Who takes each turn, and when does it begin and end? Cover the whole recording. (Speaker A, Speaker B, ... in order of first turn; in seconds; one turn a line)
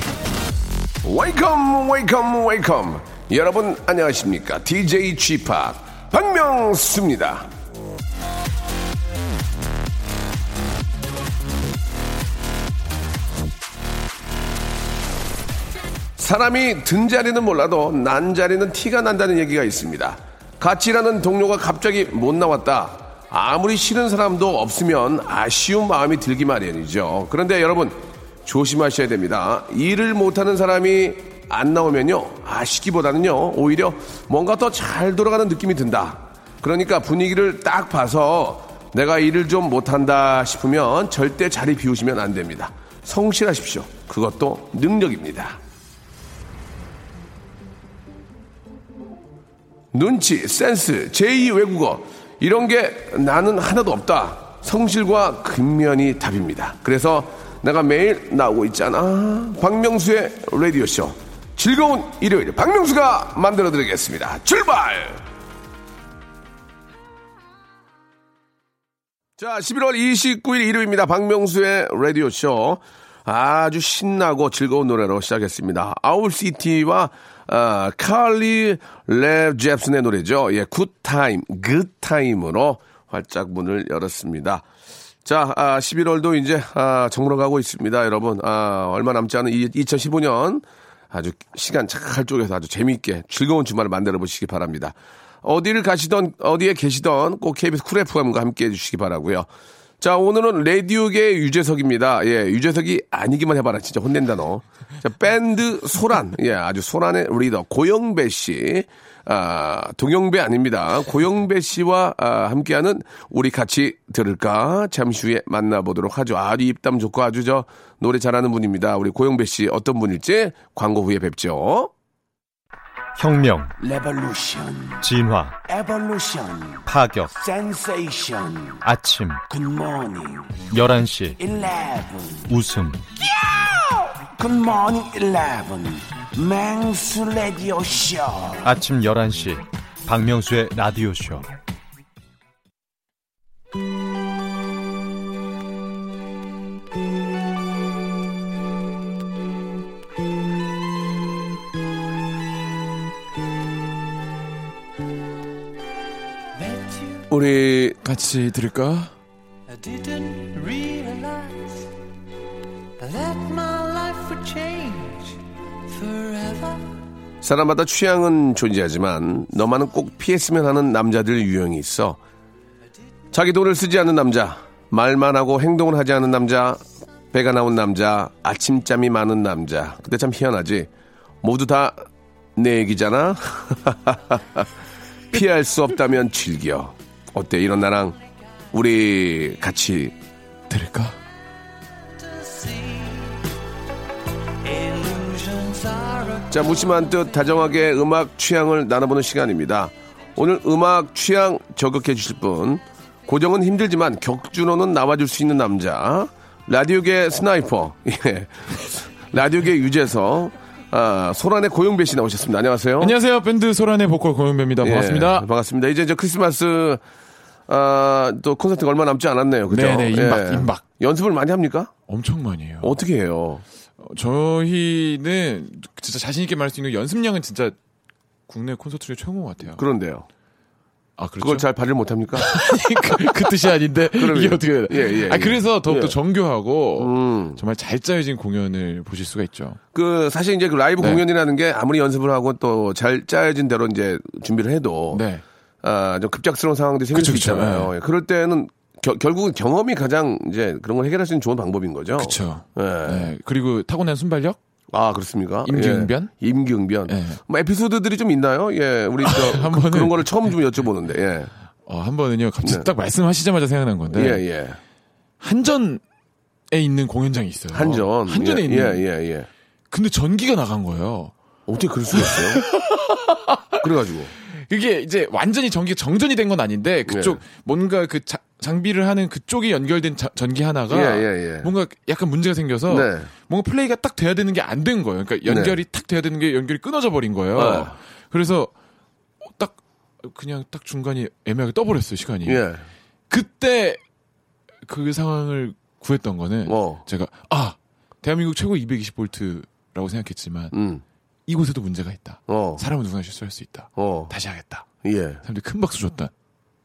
Speaker A: 1.0-7.5
Speaker A: 16.2-45.6
Speaker A: 49.9-65.2
Speaker A: 69.4-84.6
Speaker A: 85.2-99.5
Speaker A: 100.0-121.9
Speaker B: 123.2-123.7
Speaker C: 123.8-125.1
Speaker B: 125.0-125.6
Speaker C: 125.6-128.8
Speaker B: 126.9-127.3
Speaker B: 128.8-129.4
Speaker C: 129.5-130.7
Speaker B: 130.7-131.4
Speaker C: 131.4-132.6
Speaker B: 132.5-133.1
Speaker C: 133.2-138.7
Speaker B: 138.6-141.5
Speaker D: 156.6-157.3
Speaker A: 157.3-158.0
Speaker E: 158.0-159.1
Speaker D: 159.7-161.8
Speaker D: 163.0-166.9
Speaker A: 167.4-172.2
Speaker A: 173.3-180.9
Speaker A: 181.4-182.0
Speaker A: 182.6-184.7
Speaker A: 185.3-188.2
Speaker A: 188.7-190.1
Speaker E: 190.7-191.2
Speaker D: 192.2-193.4
Speaker D: 194.6-196.5
Speaker A: 196.5-213.1
Speaker E: 213.0-215.5
Speaker A: 214.8-217.0
Speaker A: 217.7-221.9
Speaker E: 219.7-220.8
Speaker E: 222.1-223.0
Speaker A: 222.8-223.6
Speaker E: 224.0-227.7
Speaker E: 228.5-229.8
Speaker A: 229.7-230.3
Speaker E: 231.2-231.7
Speaker A: 231.4-232.5
Speaker E: 232.3-239.8
Speaker A: 233.1-233.4
Speaker A: 234.1-236.2
Speaker A: 237.0-237.6
Speaker A: 239.9-245.2
Speaker E: 245.1-245.4
Speaker A: 245.8-253.3
Speaker E: 247.1-247.9
Speaker E: 252.2-254.6
Speaker A: 254.9-261.5
Speaker E: 255.6-256.3
Speaker E: 257.1-257.4
Speaker E: 259.2-260.5
Speaker E: 261.9-264.4
Speaker A: 262.6-262.9
Speaker A: 264.1-264.8
Speaker E: 265.4-266.0
Speaker E: 266.7-269.0
Speaker A: 267.7-269.5
Speaker E: 269.9-271.3
Speaker A: 271.7-272.6
Speaker E: 272.1-273.8
Speaker A: 273.8-274.3
Speaker E: 274.4-288.7
Speaker A: 277.1-277.4
Speaker A: 280.9-281.7
Speaker A: 282.9-283.3
Speaker A: 285.4-285.8
Speaker A: 287.5-287.9
Speaker E: 289.5-292.6
Speaker A: 292.4-292.9
Speaker E: 293.3-294.0
Speaker E: 294.8-300.7
Speaker A: 296.6-297.0
Speaker A: 300.7-301.0
Speaker E: 301.5-304.9
Speaker A: 302.5-302.8
Speaker A: 304.0-304.3
Speaker A: 305.0-305.4
Speaker E: 305.4-306.3